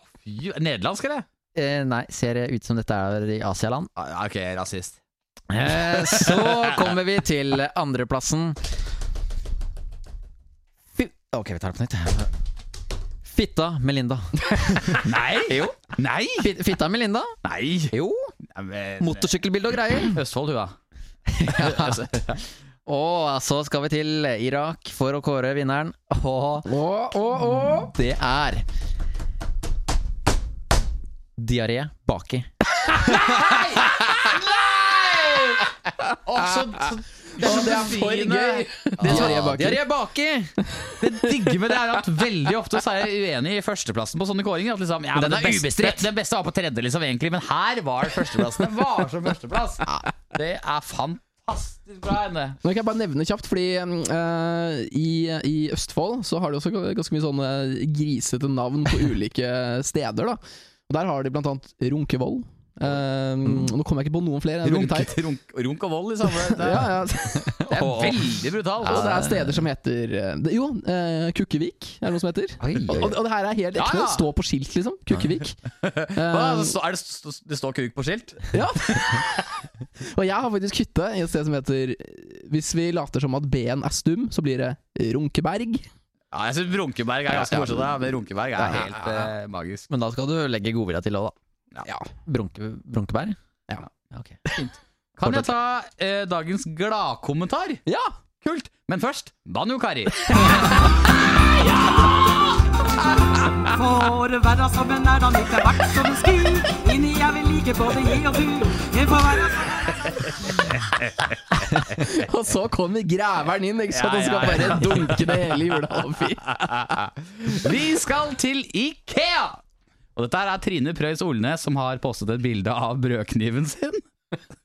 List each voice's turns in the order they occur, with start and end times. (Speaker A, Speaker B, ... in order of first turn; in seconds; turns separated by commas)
Speaker A: 0.2-1.2, Speaker B: 1.6-3.9, Speaker A: 4.0-5.0, Speaker B: 5.5-8.6, Speaker A: 6.1-6.7, Speaker B: 10.9-12.3, Speaker B: 13.2-15.8, Speaker A: 15.0-16.5, Speaker B: 16.4-17.4, Speaker A: 17.4-17.9, Speaker B: 17.9-18.3, Speaker A: 18.5-19.4, Speaker B: 19.0-20.2, Speaker A: 20.1-20.8, Speaker B: 21.3-22.0, Speaker A: 21.4-22.4, Speaker B: 22.9-26.7, Speaker C: 26.7-27.9, Speaker B: 27.6-28.7, Speaker B: 31.4-32.5, Speaker A: 33.0-35.7, Speaker A: 36.2-39.5, Speaker C: 37.4-39.8, Speaker B: 39.0-40.6, Speaker A: 41.0-52.6, Speaker B: 45.1-46.1, Speaker C: 52.6-65.2, Speaker A: 64.6-66.9, Speaker C: 66.3-67.7, Speaker B: 67.5-68.3, Speaker A: 67.6-69.2, Speaker C: 68.8-75.6, Speaker B: 68.9-69.6, Speaker B: 72.6-73.1, Speaker A: 72.7-73.1, Speaker A: 73.8-74.3, Speaker A: 75.8-78.6, Speaker C: 76.2-76.8, Speaker C: 78.5-79.5, Speaker C: 80.0-85.9, Speaker A: 86.3-89.9, Speaker C: 87.4-87.9, Speaker C: 88.6-88.9, Speaker B: 89.9-91.3, Speaker B: 92.2-93.4, Speaker B: 94.1-94.5, Speaker A: 95.2-97.8, Speaker C: 97.9-98.1, Speaker A: 98.4-100.7, Speaker D: 103.7-110.2, Speaker A: 110.5-112.1, Speaker C: 111.7-117.0, Speaker A: 113.9-115.3, Speaker A: 116.5-119.6, Speaker A: 120.2-124.0